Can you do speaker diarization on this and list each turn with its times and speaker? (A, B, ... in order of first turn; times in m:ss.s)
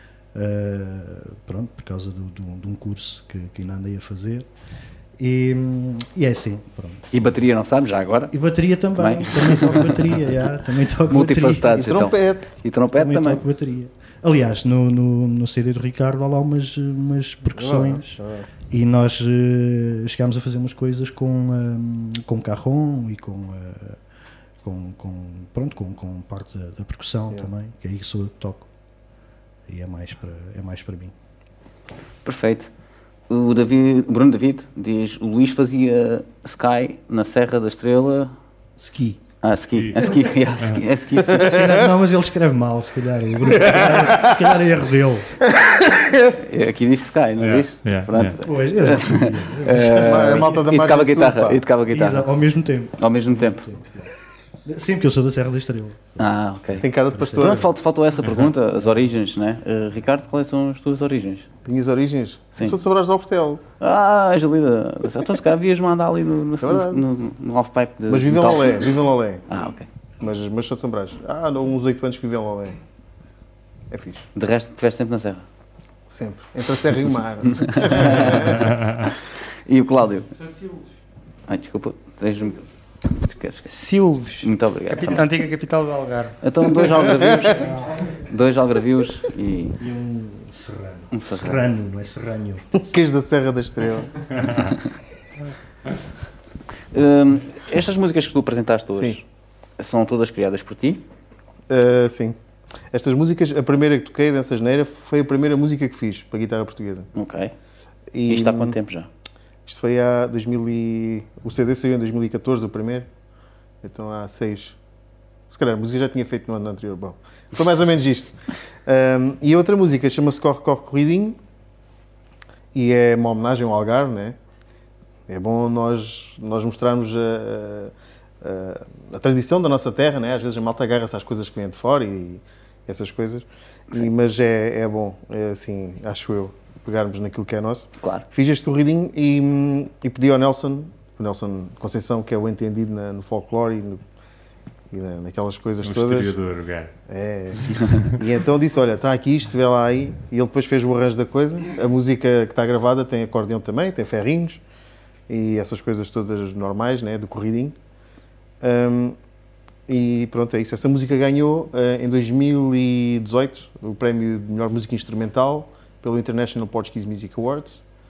0:00.3-0:04.5 A
0:05.2-0:07.1 A
0:07.1-0:08.3 B
0:08.3-0:11.9 A
0:09.0-0:09.9 B
0:11.1-0:13.4 B
0:11.7-0:12.5 C
0:12.9-0:24.0 A
0:17.5-0:18.5 C
0:24.6-0:28.7 A
0:29.7-0:31.1 A
0:32.2-0:32.7 B
0:33.3-0:38.3 B
0:38.8-0:39.2 A
0:39.4-0:41.6 B
0:39.7-0:40.9 D
0:41.3-0:45.4 A
0:41.4-0:41.9 C
0:43.5-0:44.5 C
0:45.4-0:46.4 C
0:46.3-0:52.3 B
0:47.4-0:48.4 D
0:48.4-0:50.5 A
0:49.9-0:51.6 C
0:51.9-0:54.1 A
0:53.0-0:53.7 B
0:54.6-0:56.3 A
0:56.2-1:01.5 B
0:56.8-0:57.7 C
0:57.1-0:57.6 A
0:58.2-0:58.5 D
1:01.6-1:03.6 C
1:03.8-1:08.9 B
1:06.6-1:07.0 C
1:08.1-1:09.4 C
1:09.5-1:09.9 B
1:10.2-1:12.8 C
1:13.9-1:14.3 C
1:14.4-1:15.4 B
1:16.1-1:18.7 C
1:17.6-1:19.1 B
1:19.7-1:20.3 B
1:21.5-1:23.7 B
1:23.7-1:26.4 E
1:24.4-1:25.2 B
1:26.4-1:29.8 B
1:27.2-1:27.6 C
1:29.8-1:32.9 A
1:31.1-1:31.6 B
1:32.8-1:34.1 C
1:36.9-1:39.2 B
1:38.9-1:39.2 C
1:39.8-1:41.0 B
1:41.7-1:42.4 C
1:42.9-1:47.1 C
1:47.1-1:47.5 B
1:48.1-1:48.8 C
1:48.3-1:49.1 B
1:49.6-1:53.1 C
1:53.8-1:54.8 C
1:55.5-2:01.4 C
2:02.7-2:04.4 C
2:05.3-2:24.0 C
2:24.9-2:26.4 C
2:25.8-2:26.9 D
2:27.1-2:34.6 C
2:27.8-2:28.1 D
2:35.3-2:37.8 C
2:38.6-2:39.2 C
2:39.9-2:47.8 C